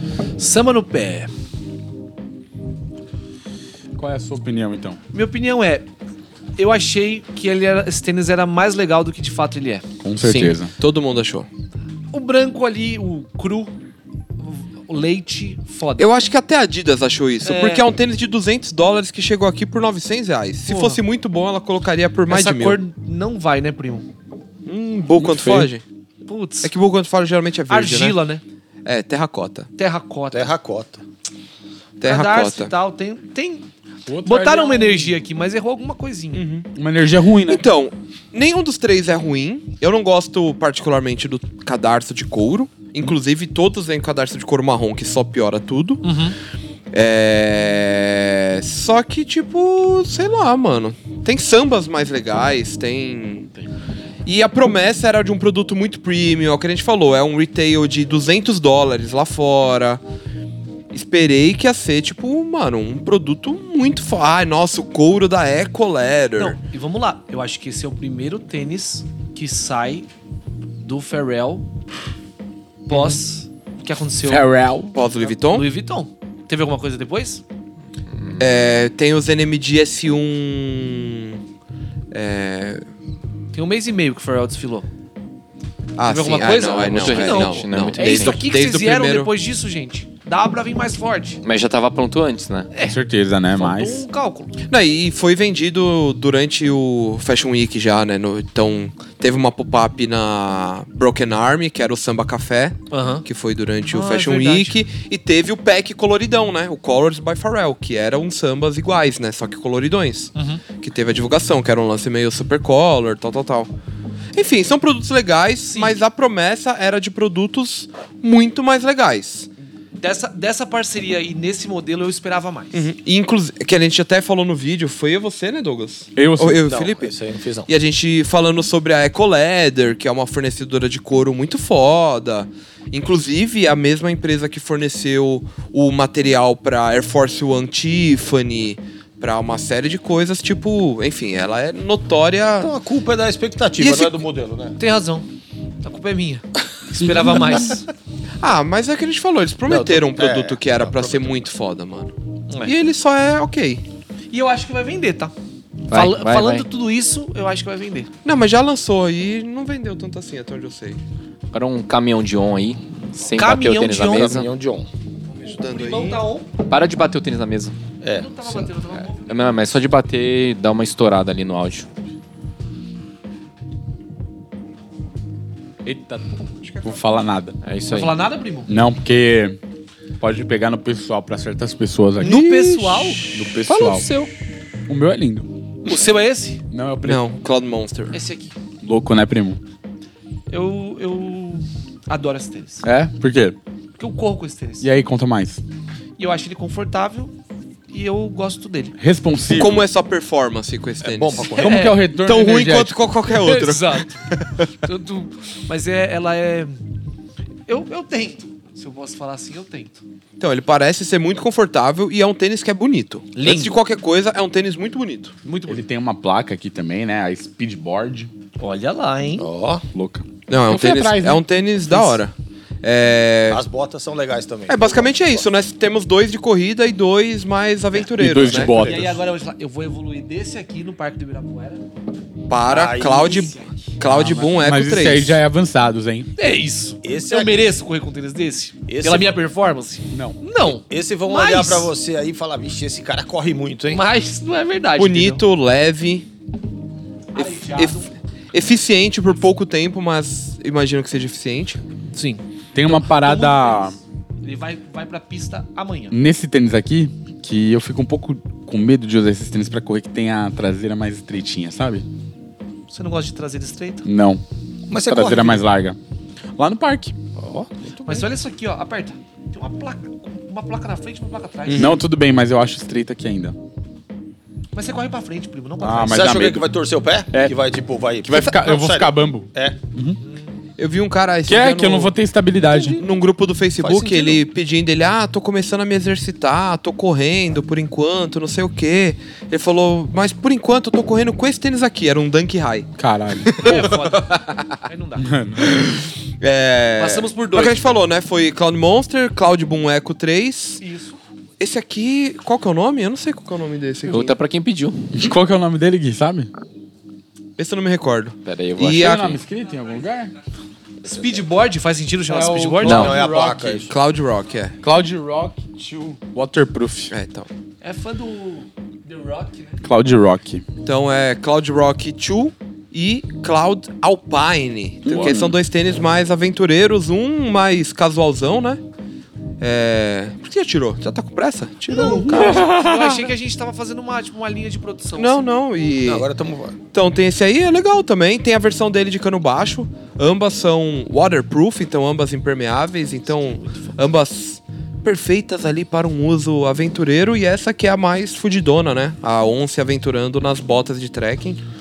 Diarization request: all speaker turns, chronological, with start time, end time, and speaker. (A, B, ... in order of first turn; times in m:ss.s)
0:00.4-0:01.3 A
0:04.0-0:05.0 B
0:05.1-0:05.9 A
0:06.6-0:09.9 A
0:10.0-0:10.7 B
0:10.2-0:11.5 C
0:12.1-0:13.7 A
0:14.4-0:16.1 A
0:16.0-0:22.8 C
0:17.4-0:17.8 A
0:20.7-0:21.0 A
0:22.3-0:24.1 A
0:24.7-0:25.8 C
0:25.2-0:25.7 B
0:26.2-0:26.7 A
0:26.6-0:28.2 C
0:27.7-0:28.4 A
0:28.8-0:29.7 C
0:29.8-0:30.5 A
0:30.3-0:31.0 D
0:32.0-0:32.7 C
0:32.0-0:33.7 A
0:34.1-0:35.1 B
0:34.2-0:36.4 A
0:36.3-0:36.7 C
0:36.8-0:37.6 B
0:37.5-0:46.1 C
0:46.0-0:46.4 A
0:46.9-0:53.5 C
0:54.2-1:00.0 C
1:00.9-1:06.6 C
1:06.4-1:10.1 A
1:10.8-1:11.7 A
1:12.9-1:14.5 A
1:12.9-1:13.2 C
1:14.2-1:15.0 B
1:14.9-1:15.7 C
1:15.2-1:17.4 A
1:18.2-1:18.6 E
1:18.4-1:21.4 C
1:22.1-1:22.8 C
1:23.5-1:24.9 A
1:26.0-1:29.3 C
1:26.1-1:31.4 A
1:26.8-1:28.4 E
1:31.4-1:32.7 E
1:32.7-1:33.0 A
1:32.8-1:34.1 B
1:33.5-1:34.6 A
1:34.7-1:53.7 C
1:42.9-1:43.2 A
1:43.9-1:44.8 A
1:50.4-1:50.6 A
1:54.3-1:59.5 C
1:55.7-1:56.0 A
2:00.0-2:02.9 A
2:02.7-2:07.1 C
2:06.2-2:06.7 B
2:06.7-2:07.7 D
2:07.7-2:22.7 C
2:22.6-2:24.8 D
2:23.8-2:24.2 C
2:24.8-2:25.3 A
2:25.8-2:27.9 A
2:27.0-2:27.7 B
2:28.4-2:32.1 C
2:29.7-2:31.4 D
2:32.5-2:32.8 D
2:32.6-2:33.8 C
2:34.3-2:35.3 A
2:35.9-2:36.7 E
2:35.9-2:38.1 A
2:38.2-2:41.0 C
2:41.5-2:44.5 E
2:43.3-2:44.3 A
2:44.1-2:44.9 D
2:45.3-2:46.2 C
2:45.6-2:46.5 A
2:46.6-2:47.8 E
2:48.0-2:48.7 D
2:48.2-2:49.6 A
2:49.1-2:51.9 E
2:55.8-2:56.3 B
2:56.6-2:57.0 C
2:56.8-2:57.6 B
2:57.6-2:58.1 E
2:57.9-2:58.8 A
2:58.7-2:59.6 B
3:00.2-3:04.1 B
3:02.2-3:03.3 A
3:03.7-3:04.3 E
3:04.9-3:05.5 B
3:05.8-3:06.6 A
3:06.7-3:07.3 B
3:07.0-3:08.2 C
3:08.1-3:08.6 A
3:08.8-3:09.6 B
3:10.5-3:12.8 A
3:12.8-3:13.6 B
3:14.0-3:14.9 A
3:14.8-3:15.6 B
3:16.2-3:17.3 A
3:17.9-3:19.0 A
3:19.0-3:19.8 B
3:19.5-3:21.6 C
3:21.0-3:21.8 D
3:21.6-3:22.1 A
3:21.6-3:23.1 B
3:22.1-3:24.7 C
3:23.3-3:24.3 A
3:24.8-3:26.8 A
3:27.7-3:30.0 A
3:30.4-3:35.4 C
3:33.4-3:33.8 A
3:35.4-3:35.8 A
3:35.7-3:38.3 B
3:38.6-3:39.5 A
3:39.4-3:39.8 D
3:39.9-3:42.2 B
3:40.5-3:43.6 C
3:43.5-3:45.5 D
3:44.7-3:49.0 C
3:48.2-3:49.2 B
3:48.7-3:51.8 A
3:52.5-3:55.4 C
3:52.7-3:53.5 D
3:53.2-3:53.9 A
3:54.0-3:56.3 B
3:56.4-4:01.9 A
3:57.0-3:57.8 D
3:58.9-3:59.4 D
4:00.1-4:00.4 B
4:00.6-4:04.0 D
4:03.9-4:05.4 A
4:05.0-4:06.3 C
4:07.3-4:08.1 A
4:07.4-4:11.8 C
4:12.1-4:16.2 A
4:12.7-4:14.0 B
4:16.1-4:22.1 B
4:22.9-4:24.1 A
4:24.0-4:24.4 B
4:24.9-4:25.6 D
4:25.0-4:26.0 B
4:26.6-4:27.2 B
4:27.4-4:28.3 D
4:28.0-4:32.0 A
4:31.7-4:32.0 C
4:31.8-4:33.6 B
4:34.7-4:36.5 A
4:35.8-4:36.6 B
4:36.1-4:39.8 D
4:38.2-4:40.2 B
4:40.2-4:40.7 A
4:40.8-4:42.1 C
4:41.5-4:43.0 B
4:42.8-4:54.8 C
4:43.8-4:44.3 D
4:53.0-4:53.7 B
4:53.6-4:55.3 A
4:55.2-4:56.0 B
4:55.7-5:00.8 C
4:57.0-4:58.0 A
5:00.8-5:01.2 A
5:01.6-5:04.4 C
5:04.1-5:05.1 E
5:05.1-5:06.5 B
5:07.6-5:09.4 C
5:08.4-5:09.4 E
5:09.0-5:10.3 B
5:11.0-5:13.2 A
5:12.3-5:13.9 B
5:12.8-5:13.9 D
5:12.8-5:13.1 E
5:13.9-5:14.8 C
5:14.8-5:17.1 B
5:17.1-5:17.5 C
5:17.8-5:19.8 A
5:19.8-5:20.6 B
5:20.8-5:28.8 C
5:25.1-5:25.6 B
5:29.6-5:33.3 C
5:31.9-5:35.4 A
5:32.0-5:32.8 B
5:35.2-5:36.3 C
5:36.0-5:36.8 D
5:36.9-5:51.6 C
5:43.3-5:44.0 A